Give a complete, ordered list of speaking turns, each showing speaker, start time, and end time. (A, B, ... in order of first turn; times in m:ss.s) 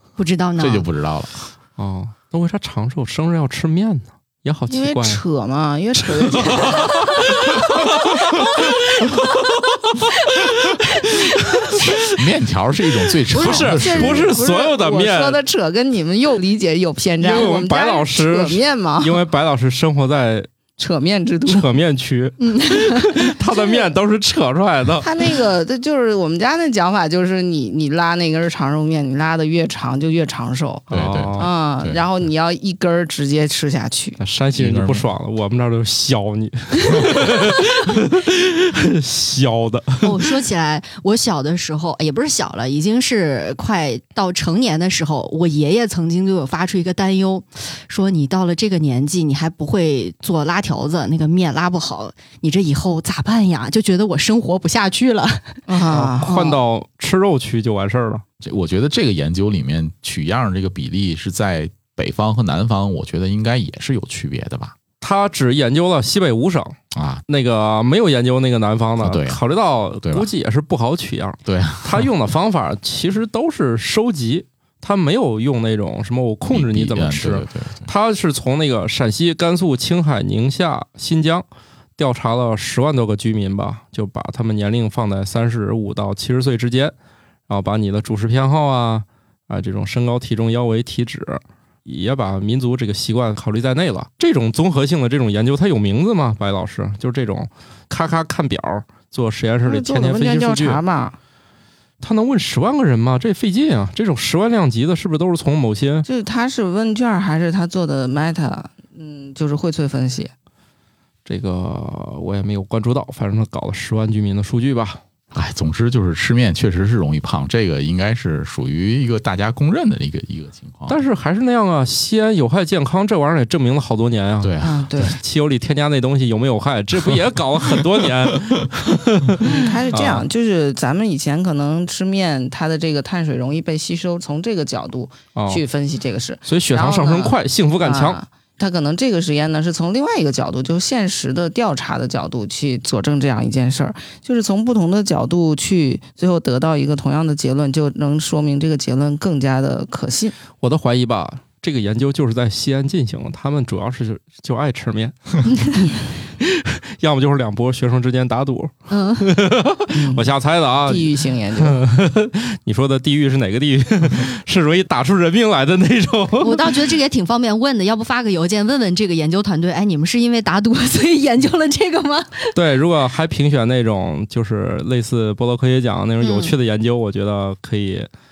0:00.2-0:00.8 A
0:00.6-0:01.5 B
0:01.8-0:05.2 C
0:04.7-0:08.3 D
0:06.2-0:12.2 C
0:12.2-0:14.3 B
0:13.1-0:15.4 C
0:13.3-0:19.2 D
0:17.2-0:20.5 C
0:20.8-0:21.7 D
0:21.4-0:25.1 C
0:22.4-0:23.1 A
0:25.0-0:34.2 D
0:30.9-0:31.5 C
0:30.9-0:32.0 B
0:34.2-0:40.1 C
0:34.5-0:35.0 B
0:40.0-0:56.6 A
0:55.7-0:56.3 D
0:55.9-0:58.2 C
0:58.4-1:04.7 B
1:05.0-1:06.8 C
1:06.9-1:07.2 B
1:07.3-1:21.4 C
1:09.0-1:09.4 B
1:10.0-1:10.3 B
1:11.4-1:12.1 B
1:16.5-1:17.9 B
1:22.0-1:26.9 C
1:27.5-1:40.8 C
1:39.6-1:41.2 D
1:42.0-1:46.1 C
1:46.1-1:50.3 D
1:51.2-1:55.0 C
1:55.3-2:01.0 B
2:00.9-2:10.2 C
2:04.4-2:05.2 B
2:04.6-2:05.2 D
2:09.4-2:30.3 D
2:15.4-2:15.6 C
2:16.5-2:18.2 C
2:30.6-2:35.4 C
2:36.4-2:46.6 C
2:38.9-2:39.3 A
2:39.9-2:40.3 D
2:40.8-2:41.8 D
2:46.4-2:52.6 A
2:52.5-2:58.1 C
2:56.2-2:56.5 A